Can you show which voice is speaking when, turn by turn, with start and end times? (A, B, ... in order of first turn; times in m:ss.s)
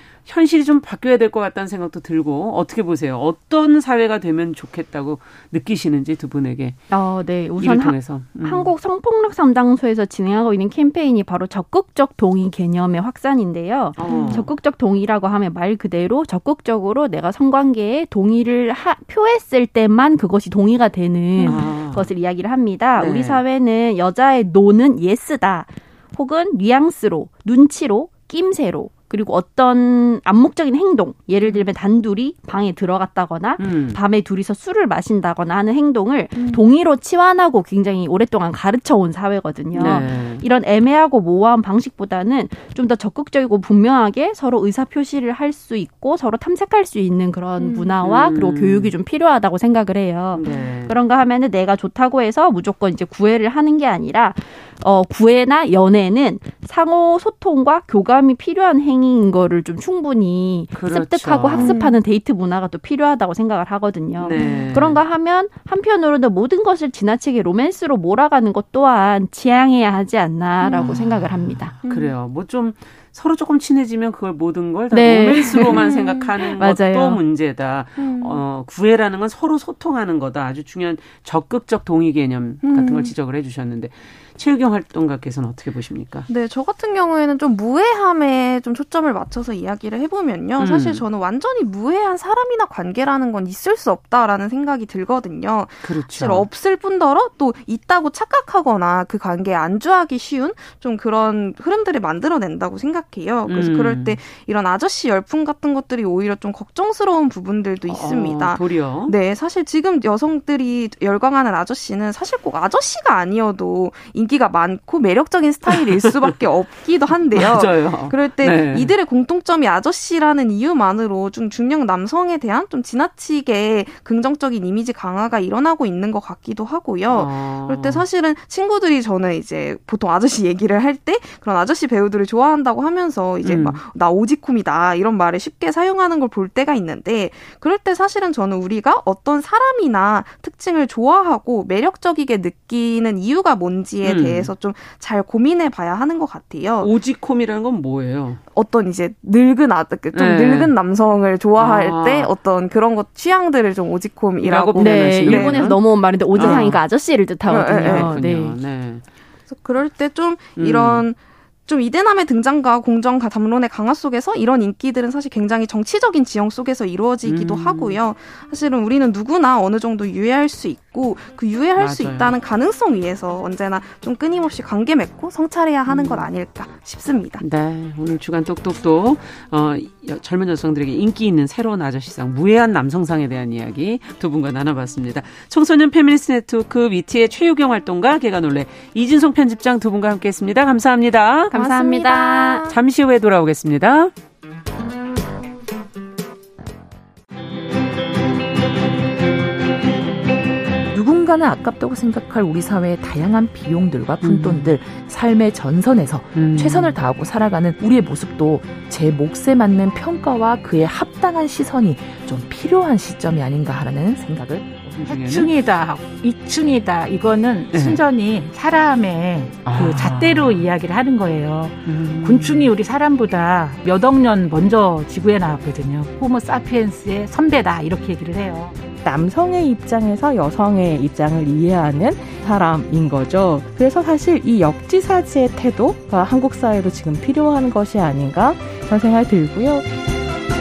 0:00.2-0:06.8 A
0:06.9-1:11.7 B
0:07.6-0:08.7 A
0:14.0-0:14.5 A
0:14.1-0:14.5 C
0:21.4-0:21.6 C
0:21.4-0:22.1 A
0:23.0-0:23.4 A
0:33.6-0:34.0 A
0:36.4-0:36.6 C
0:39.7-0:40.4 A
0:47.6-0:47.9 C
0:48.0-0:48.9 A
0:50.3-0:51.0 A
1:00.8-1:01.8 A
1:01.5-1:02.0 C
1:04.2-1:05.0 A
1:04.4-1:04.8 C
1:10.6-1:10.9 C
1:10.8-1:26.3 A
1:11.9-1:12.2 C
1:14.9-1:15.9 B
1:15.6-1:16.3 C
1:16.6-1:17.2 B
1:18.0-1:18.4 C
1:22.6-1:23.1 C
1:26.3-2:26.9 C
1:30.6-1:31.0 A
1:35.8-1:36.5 A
1:43.5-1:44.2 A
1:47.9-1:49.2 A
1:57.3-1:58.9 A
2:07.1-2:08.0 A
2:13.4-2:13.8 A
2:24.0-2:24.5 A
2:26.8-2:28.4 A
2:28.5-2:35.8 C
2:30.1-2:30.7 A
2:31.6-2:32.3 A
2:34.4-2:36.8 A
2:34.8-2:38.6 B
2:36.3-2:36.8 C
2:37.5-2:38.1 C
2:37.8-2:39.0 A
2:39.5-2:57.4 C
2:40.6-2:41.0 A
2:47.2-2:48.0 A
2:51.8-2:52.3 A
2:55.9-2:56.3 A
2:57.4-3:12.0 A
3:11.5-3:12.7 B
3:11.6-3:12.6 C
3:12.6-3:14.1 A
3:20.9-3:34.7 D
3:24.2-3:24.7 A
3:26.3-3:27.0 A
3:35.0-3:35.6 A
3:35.0-3:48.8 E
3:37.7-3:38.0 A
3:39.6-3:40.6 A
3:41.9-3:42.7 A
3:49.0-3:59.9 F